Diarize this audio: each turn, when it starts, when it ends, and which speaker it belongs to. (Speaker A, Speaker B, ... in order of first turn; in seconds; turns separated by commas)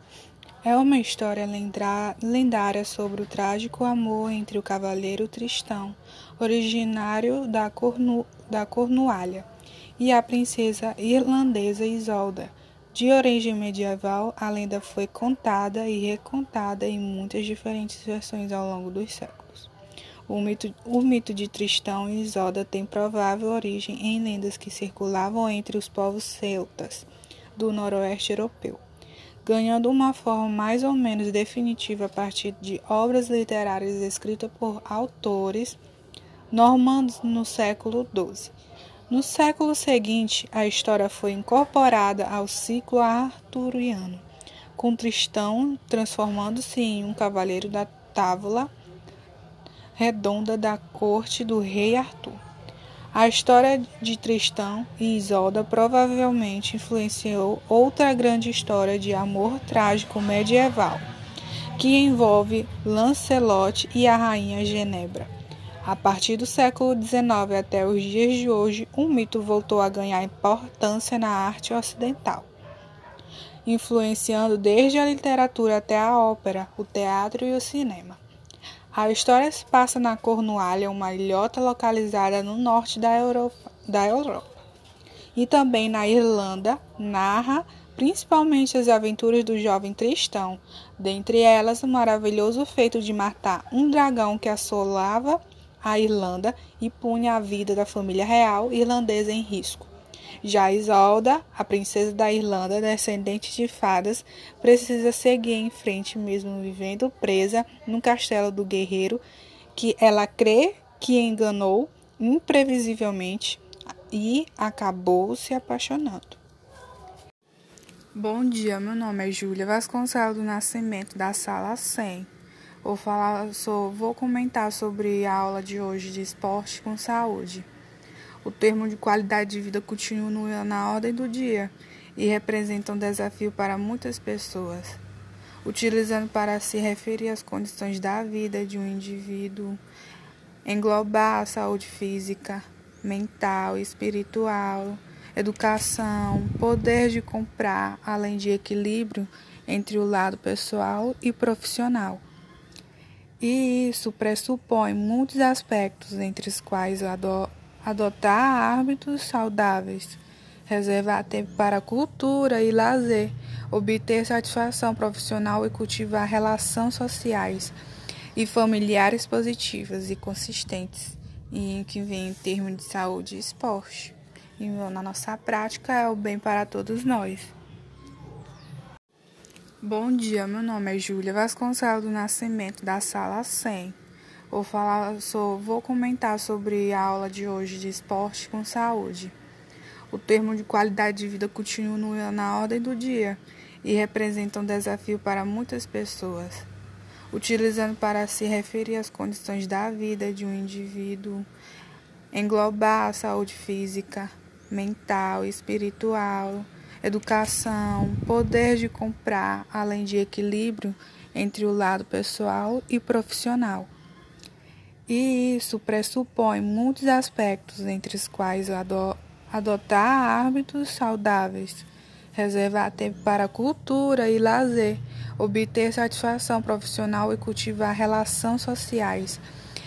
Speaker A: 0.6-9.5, Speaker A: 10.0-19.7, Speaker A: 20.3-28.8, Speaker A: 29.4-35.8, Speaker A: 36.5-38.5, Speaker A: 39.1-44.2, Speaker A: 44.8-48.7, Speaker A: 50.0-52.4, Speaker A: 53.1-61.1, Speaker A: 61.8-65.3, Speaker A: 65.8-72.5, Speaker A: 73.6-78.2, Speaker A: 78.9-84.6, Speaker A: 85.3-99.9, Speaker A: 100.4-109.2, Speaker A: 109.7-116.4, Speaker A: 118.1-122.3, Speaker A: 122.8-127.7, Speaker A: 128.4-135.0, Speaker A: 135.6-139.8, Speaker A: 140.6-152.2, Speaker A: 153.4-167.7, Speaker A: 168.3-177.5, Speaker A: 179.8-184.0, Speaker A: 184.5-189.3, Speaker A: 190.1-196.7, Speaker A: 197.3-201.5, Speaker A: 202.3-213.9, Speaker A: 215.1-229.4